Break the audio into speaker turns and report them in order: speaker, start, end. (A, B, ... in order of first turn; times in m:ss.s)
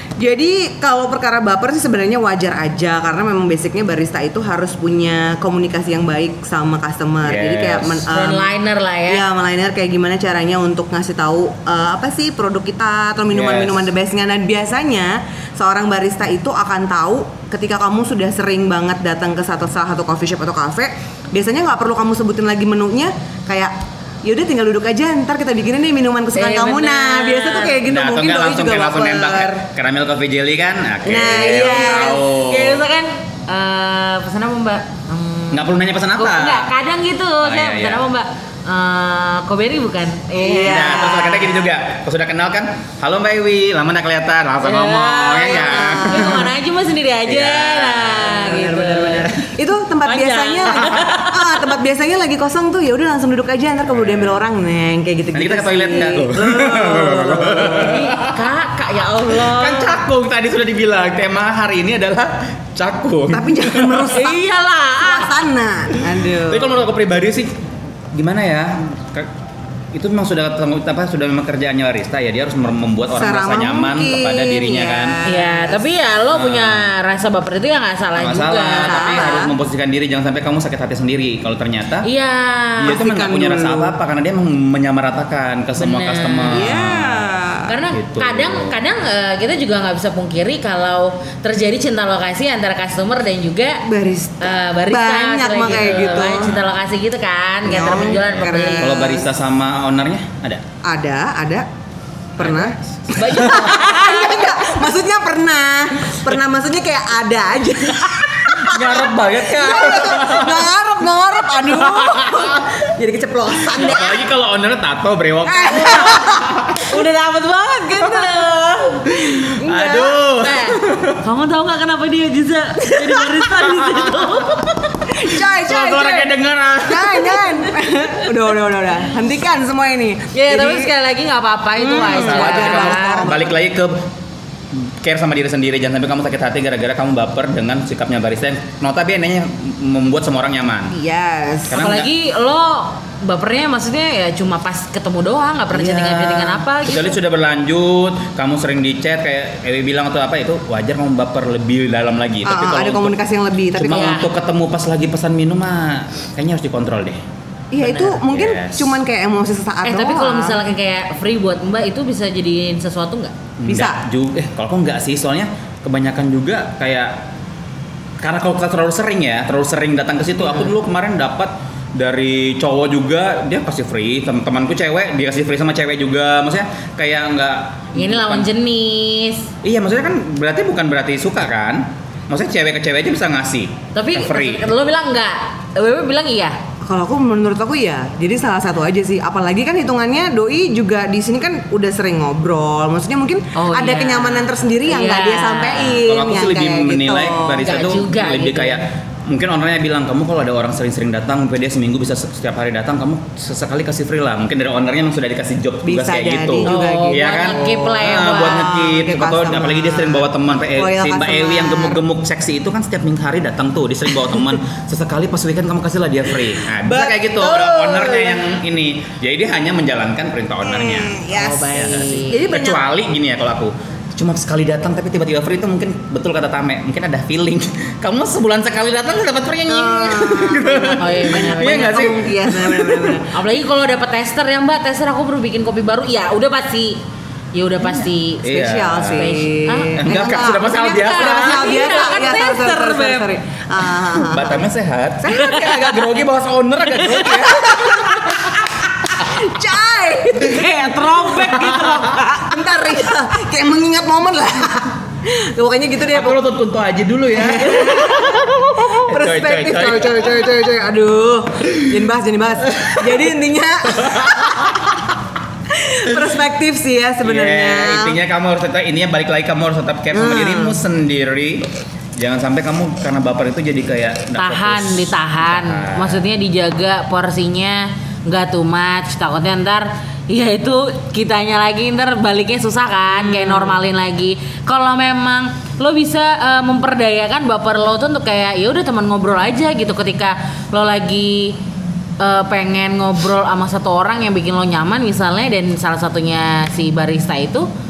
0:00.2-0:08.5 A
0:07.2-0:08.1 B
0:08.1-0:09.2 C
0:09.1-0:29.7 A
0:13.3-0:13.8 B
0:26.4-0:27.8 C
0:27.8-0:32.8 B
0:31.0-0:32.2 A
0:31.2-0:41.2 C
0:35.5-0:36.7 B
0:37.4-0:38.0 B
0:40.4-0:41.7 A
0:40.7-0:46.5 B
0:44.6-0:49.4 C
0:45.5-0:46.5 A
0:47.3-0:48.4 B
0:48.2-0:58.0 A
0:50.0-0:51.7 C
0:53.9-0:54.4 B
0:55.3-0:58.4 B
0:57.5-1:00.0 C
0:59.3-1:04.2 B
1:03.3-1:04.4 A
1:04.1-1:05.3 C
1:05.0-1:06.8 A
1:06.4-1:07.5 B
1:08.1-1:09.3 B
1:09.9-1:15.2 B
1:13.1-1:15.8 A
1:15.2-1:19.5 C
1:16.3-1:16.9 B
1:18.2-1:22.1 B
1:18.7-1:19.5 A
1:22.0-1:23.0 C
1:22.8-1:24.0 A
1:22.8-1:27.4 B
1:25.8-1:26.7 C
1:26.5-1:27.7 A
1:27.7-1:33.9 C
1:27.9-1:28.8 B
1:33.9-1:36.6 A
1:34.4-1:39.2 C
1:35.6-1:36.6 B
1:37.6-1:39.3 A
1:38.8-1:40.6 B
1:40.8-1:41.7 A
1:42.4-1:54.3 A
1:42.4-1:43.7 B
1:43.1-1:44.5 C
1:48.1-1:50.7 B
1:51.5-1:52.7 B
1:53.6-1:56.9 B
1:55.4-1:57.1 A
1:55.7-1:59.1 C
1:57.9-2:00.3 A
1:59.1-2:01.2 B
2:00.4-2:05.0 C
2:02.8-2:03.4 A
2:03.7-2:04.5 B
2:05.1-2:10.9 A
2:05.3-2:07.5 B
2:10.3-2:13.3 C
2:11.8-2:13.6 A
2:12.0-2:14.0 B
2:14.7-2:21.0 B
2:20.9-2:21.8 A
2:21.7-2:22.1 B
2:21.8-2:27.2 C
2:25.7-2:33.2 B
2:32.4-2:34.3 A
2:33.7-2:37.2 B
2:33.9-2:34.3 C
2:37.7-2:40.6 A
2:37.9-2:38.9 B
2:39.8-2:43.4 C
2:43.6-2:47.2 B
2:43.7-2:44.0 A
2:48.2-2:58.5 B
2:57.9-2:59.5 C
2:59.6-3:04.7 B
3:04.0-3:06.6 C
3:06.8-3:17.8 A
3:13.6-3:16.0 C
3:15.8-3:53.2 B
3:17.6-3:18.8 C
3:25.8-3:28.0 A
3:26.6-3:28.9 C
3:28.7-3:32.0 A
3:36.8-3:38.5 A
3:40.6-3:41.7 A
3:41.3-3:42.4 C
3:42.3-3:42.9 A
3:49.7-3:53.3 A
3:51.0-3:52.1 C
3:53.3-3:57.0 C
3:57.5-4:03.3 C
3:58.4-3:59.4 B
3:58.5-4:04.7 A
4:00.0-4:01.8 B
4:04.2-4:08.5 B
4:05.2-4:06.0 A
4:07.4-4:08.5 A
4:09.1-4:11.4 A
4:10.4-4:12.5 C
4:11.3-4:12.2 B
4:12.1-4:16.4 A
4:16.1-4:20.5 B
4:17.3-4:25.0 A
4:23.9-4:24.7 B
4:25.7-4:28.2 A
4:27.2-4:36.2 B
4:30.1-4:30.8 A
4:34.4-4:51.6 C
4:52.2-4:57.7 C